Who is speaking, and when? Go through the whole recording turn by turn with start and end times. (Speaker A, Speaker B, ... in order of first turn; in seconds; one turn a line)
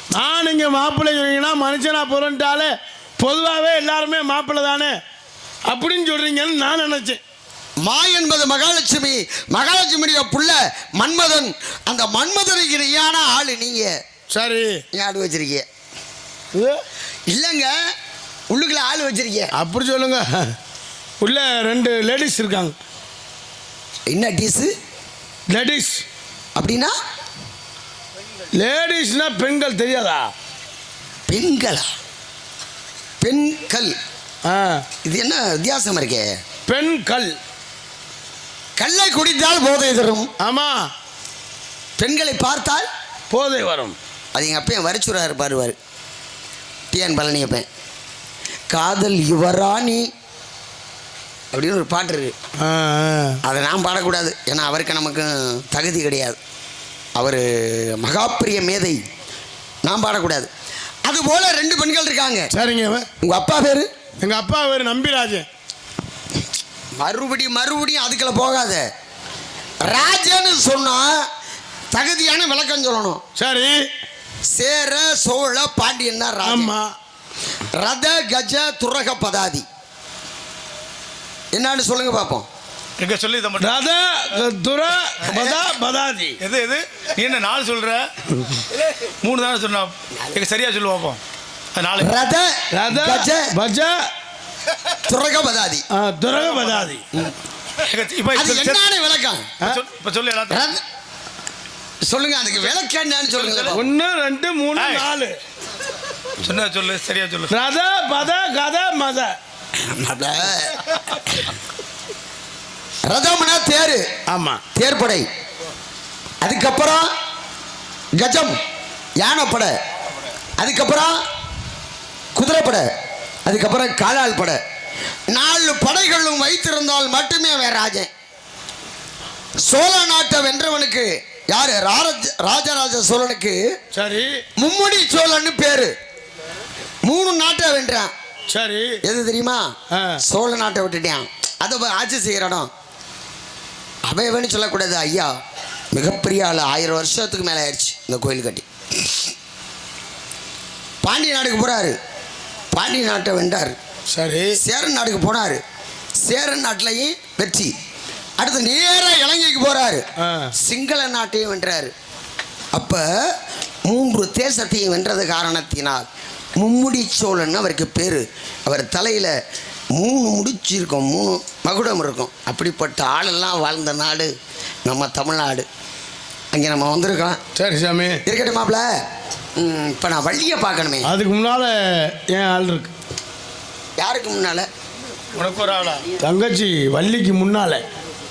Speaker A: 0.1-4.9
Speaker A: 5.7-7.2
Speaker B: 7.8-13.9
Speaker A: 14.3-14.8
Speaker B: 14.9-15.7
Speaker A: 16.5-16.8
Speaker B: 17.3-17.7
Speaker B: 18.5-19.5
Speaker A: 19.6-20.5
Speaker A: 21.2-22.8
Speaker B: 24.1-24.7
Speaker A: 25.5-26.0
Speaker B: 26.6-26.9
Speaker A: 28.6-30.3
Speaker B: 31.3-31.9
Speaker B: 33.2-33.9
Speaker A: 34.5-34.8
Speaker B: 35.0-36.3
Speaker A: 36.7-37.4
Speaker B: 38.8-40.3
Speaker A: 40.4-40.9
Speaker B: 42.0-42.9
Speaker A: 43.3-44.0
Speaker B: 44.4-45.8
Speaker B: 46.9-47.7
Speaker B: 48.7-50.1
Speaker B: 51.5-52.3
Speaker A: 52.6-53.4
Speaker B: 53.4-56.4
Speaker B: 57.2-59.0
Speaker B: 59.9-60.5
Speaker B: 61.1-62.5
Speaker A: 62.5-63.1
Speaker B: 63.2-63.9
Speaker A: 64.2-65.5
Speaker B: 67.0-68.8
Speaker B: 69.8-71.2
Speaker B: 71.9-73.2
Speaker A: 73.4-73.8
Speaker B: 74.5-76.7
Speaker A: 76.4-76.9
Speaker B: 77.7-79.7
Speaker B: 81.5-82.5
Speaker C: 83.0-83.8
Speaker A: 83.6-86.4
Speaker B: 85.3-85.5
Speaker C: 86.4-88.1
Speaker C: 88.7-91.2
Speaker C: 91.8-92.1
Speaker B: 92.0-93.5
Speaker A: 92.7-94.0
Speaker B: 95.1-95.8
Speaker A: 95.9-97.0
Speaker C: 96.6-96.8
Speaker C: 97.8-98.8
Speaker B: 98.3-99.5
Speaker C: 99.6-100.7
Speaker B: 100.5-100.8
Speaker B: 102.1-103.8
Speaker C: 103.3-103.8
Speaker A: 103.7-105.3
Speaker C: 104.8-105.1
Speaker C: 106.4-107.5
Speaker A: 107.5-109.3
Speaker B: 109.8-111.5
Speaker B: 113.1-114.0
Speaker A: 114.3-114.6
Speaker B: 114.7-115.2
Speaker B: 116.4-117.1
Speaker B: 118.2-118.6
Speaker B: 119.2-119.7
Speaker B: 120.6-121.2
Speaker B: 122.4-122.9
Speaker B: 123.5-124.6
Speaker B: 125.3-128.1
Speaker B: 129.6-133.6
Speaker A: 133.9-134.3
Speaker B: 134.6-135.9
Speaker B: 137.1-138.1
Speaker A: 138.5-139.0
Speaker B: 139.0-139.7
Speaker A: 139.9-140.2
Speaker B: 140.2-142.7
Speaker B: 144.1-145.3
Speaker B: 145.9-149.3
Speaker B: 151.0-152.0
Speaker B: 152.7-153.8
Speaker A: 154.1-154.6
Speaker B: 154.6-155.6
Speaker B: 156.2-157.7
Speaker B: 158.4-160.0
Speaker A: 160.2-160.5
Speaker B: 160.6-161.9
Speaker B: 162.7-163.1
Speaker B: 163.9-166.1
Speaker B: 166.6-169.3
Speaker B: 170.0-174.3
Speaker B: 174.9-175.7
Speaker B: 176.5-177.4
Speaker A: 177.6-178.2
Speaker B: 178.3-178.8
Speaker B: 179.6-181.1
Speaker A: 181.0-182.9
Speaker B: 184.0-184.7
Speaker A: 185.3-187.8